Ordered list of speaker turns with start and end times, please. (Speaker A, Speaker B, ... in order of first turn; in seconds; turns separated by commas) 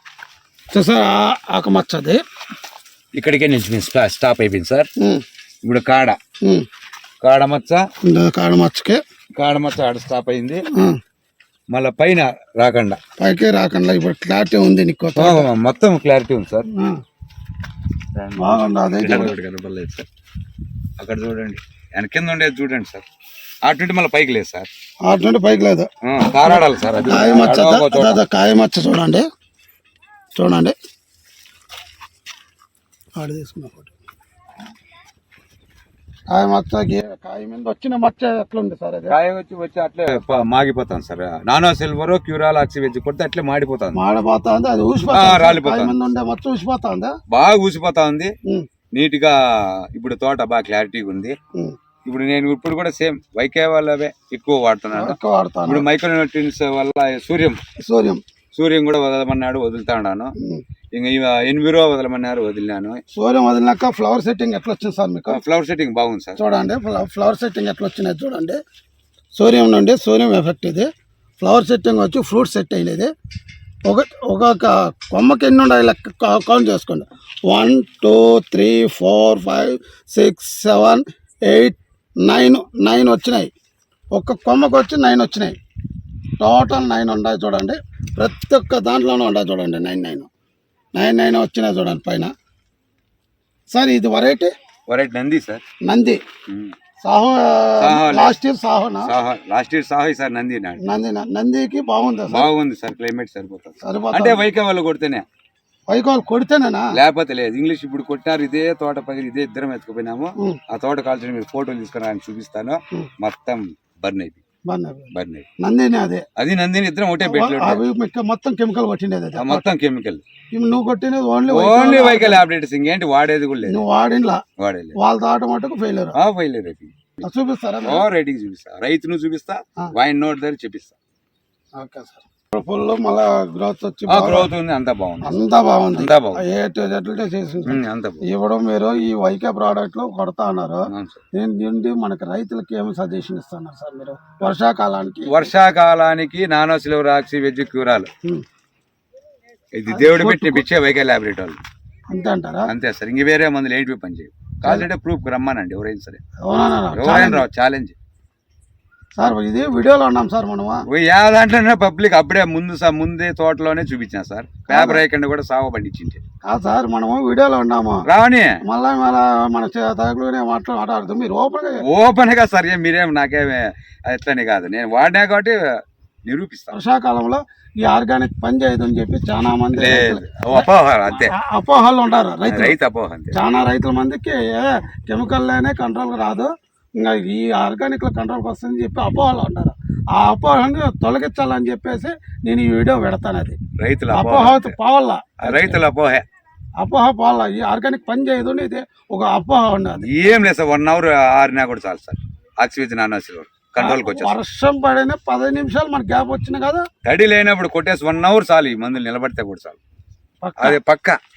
Speaker A: 0.7-2.2, Speaker B: 3.1-4.9, Speaker A: 5.0-5.2, Speaker B: 5.6-6.2, Speaker B: 7.2-7.8, Speaker A: 8.0-9.0, Speaker B: 9.4-10.6, Speaker B: 11.7-13.0, Speaker A: 13.2-15.5, Speaker B: 15.2-16.7, Speaker A: 16.7-17.0, Speaker B: 18.2-20.1, Speaker A: 18.4-19.3, Speaker B: 21.0-23.0, Speaker B: 23.7-24.7, Speaker A: 25.1-25.9, Speaker B: 26.0-28.2, Speaker A: 26.4-29.2, Speaker A: 30.3-30.8, Speaker A: 33.2-33.9, Speaker A: 36.3-39.2, Speaker B: 39.1-44.0, Speaker A: 43.9-47.1, Speaker B: 45.1-46.0, Speaker B: 47.3-48.3, Speaker B: 48.9-51.3, Speaker B: 52.1-57.6, Speaker A: 54.9-55.8, Speaker A: 57.8-58.2, Speaker B: 58.5-60.3, Speaker B: 60.9-63.0, Speaker A: 63.1-65.4, Speaker B: 65.3-66.4, Speaker A: 66.4-68.6, Speaker A: 69.3-70.9, Speaker A: 71.4-73.1, Speaker A: 73.8-83.5, Speaker A: 84.1-85.6, Speaker A: 86.4-90.3, Speaker A: 91.0-92.3, Speaker A: 93.7-94.5, Speaker B: 94.9-95.6, Speaker A: 95.8-96.2, Speaker B: 96.5-96.8, Speaker A: 97.0-99.1, Speaker B: 97.8-98.4, Speaker B: 99.0-100.8, Speaker A: 100.8-102.5, Speaker B: 102.3-105.2, Speaker A: 103.8-104.4, Speaker A: 105.9-106.9, Speaker B: 106.9-114.4, Speaker A: 114.7-116.2, Speaker B: 115.1-115.5, Speaker B: 116.4-117.8, Speaker A: 117.2-119.7, Speaker B: 119.4-120.2, Speaker A: 120.5-122.4, Speaker B: 121.5-123.8, Speaker A: 123.7-124.4, Speaker B: 124.6-125.0, Speaker A: 125.0-126.2, Speaker B: 126.1-127.1, Speaker A: 127.2-128.1, Speaker B: 127.8-130.9, Speaker A: 131.8-134.5, Speaker B: 134.1-135.4, Speaker A: 135.2-145.4, Speaker B: 135.9-136.4, Speaker B: 137.7-138.2, Speaker B: 140.9-141.2, Speaker B: 145.3-148.1, Speaker B: 149.8-151.6, Speaker A: 149.9-150.6, Speaker A: 152.1-152.7, Speaker B: 152.7-156.2, Speaker A: 156.4-157.4, Speaker B: 156.9-157.9, Speaker A: 159.2-160.8, Speaker B: 160.9-166.2, Speaker A: 164.7-165.0, Speaker A: 166.4-168.1, Speaker B: 168.1-168.6, Speaker A: 168.6-171.8, Speaker B: 171.8-176.8, Speaker A: 176.7-182.8, Speaker B: 179.8-181.3, Speaker B: 182.5-183.4, Speaker A: 183.3-193.6, Speaker B: 193.8-194.8, Speaker A: 194.1-195.8, Speaker B: 195.4-196.2, Speaker A: 196.8-200.1, Speaker B: 200.0-204.4, Speaker A: 203.8-206.9, Speaker B: 207.1-209.8, Speaker A: 210.4-210.8, Speaker B: 210.6-211.2